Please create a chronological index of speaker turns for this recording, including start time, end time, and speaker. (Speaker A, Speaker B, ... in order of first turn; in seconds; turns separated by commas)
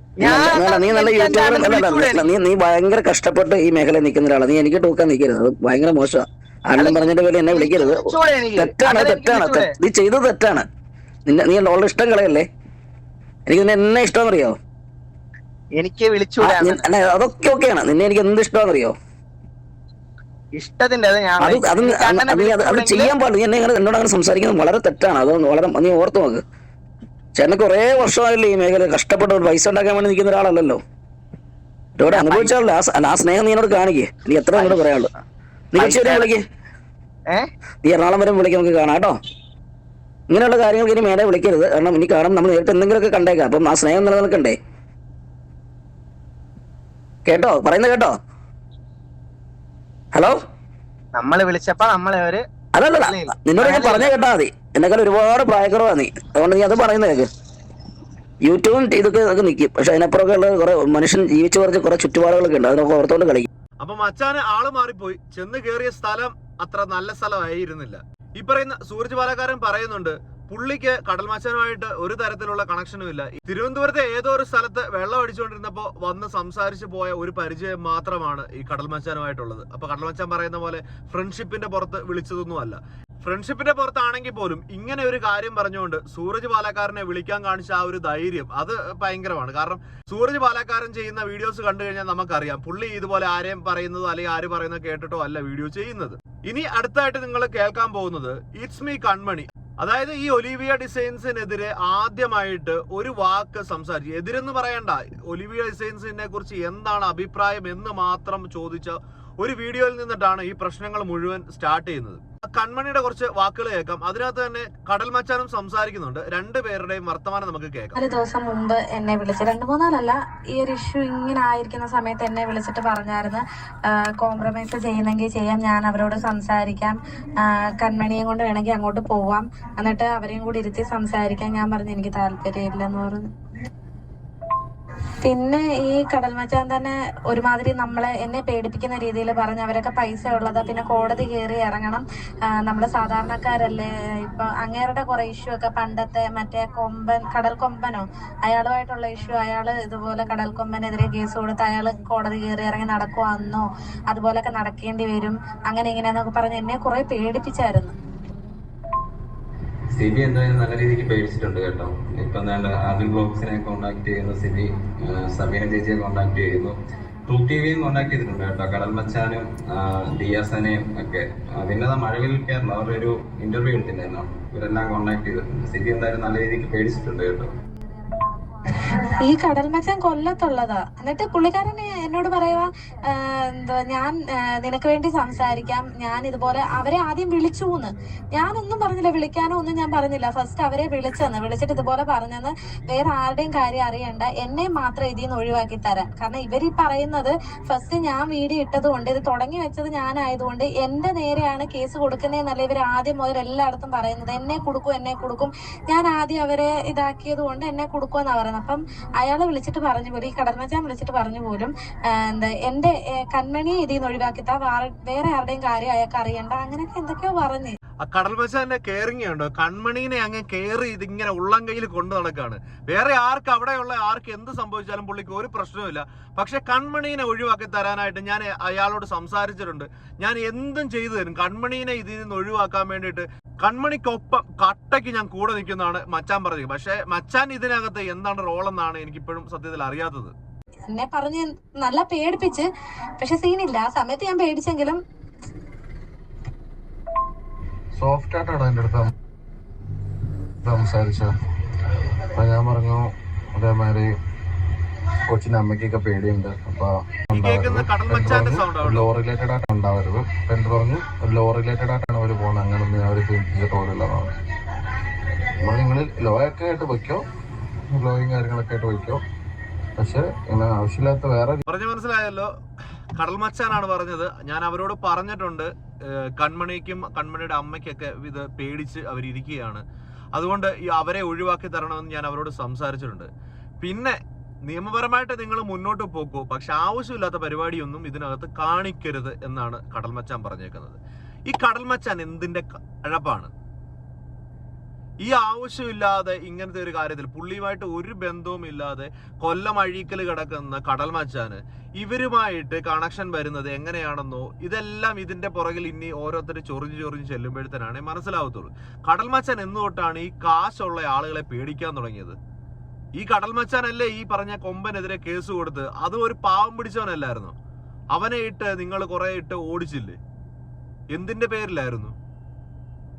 Speaker A: 0.2-2.4, Speaker B: 0.2-10.7, Speaker A: 6.7-9.8, Speaker B: 11.3-12.5, Speaker B: 13.5-14.6, Speaker A: 15.8-16.9, Speaker B: 16.4-19.0, Speaker A: 20.6-23.1, Speaker B: 21.4-26.4, Speaker B: 27.4-30.8, Speaker B: 32.0-35.1, Speaker A: 32.0-32.6, Speaker A: 34.5-35.0, Speaker B: 35.7-36.4, Speaker A: 35.8-36.3, Speaker B: 37.8-39.2, Speaker B: 40.3-44.6, Speaker B: 47.3-48.2, Speaker B: 50.1-50.4, Speaker A: 51.1-54.1, Speaker B: 52.7-57.3, Speaker B: 58.4-63.5, Speaker C: 63.8-118.0, Speaker D: 118.0-123.4, Speaker D: 124.0-133.3, Speaker D: 135.2-142.0, Speaker D: 142.6-157.9, Speaker E: 159.9-166.8, Speaker E: 167.3-177.5, Speaker D: 178.8-211.7, Speaker D: 212.3-217.7, Speaker C: 218.1-240.3, Speaker D: 240.9-242.7, Speaker D: 243.2-245.0, Speaker F: 248.0-249.1, Speaker F: 250.6-251.3, Speaker F: 252.3-254.1, Speaker F: 255.3-264.3, Speaker C: 257.3-259.1, Speaker F: 265.6-267.2, Speaker F: 267.9-269.2, Speaker F: 270.0-271.6, Speaker C: 271.7-272.5, Speaker C: 273.2-279.8, Speaker C: 280.4-283.3, Speaker C: 283.8-293.5, Speaker C: 295.2-312.4, Speaker C: 313.2-317.6, Speaker C: 318.1-320.2, Speaker C: 321.1-322.1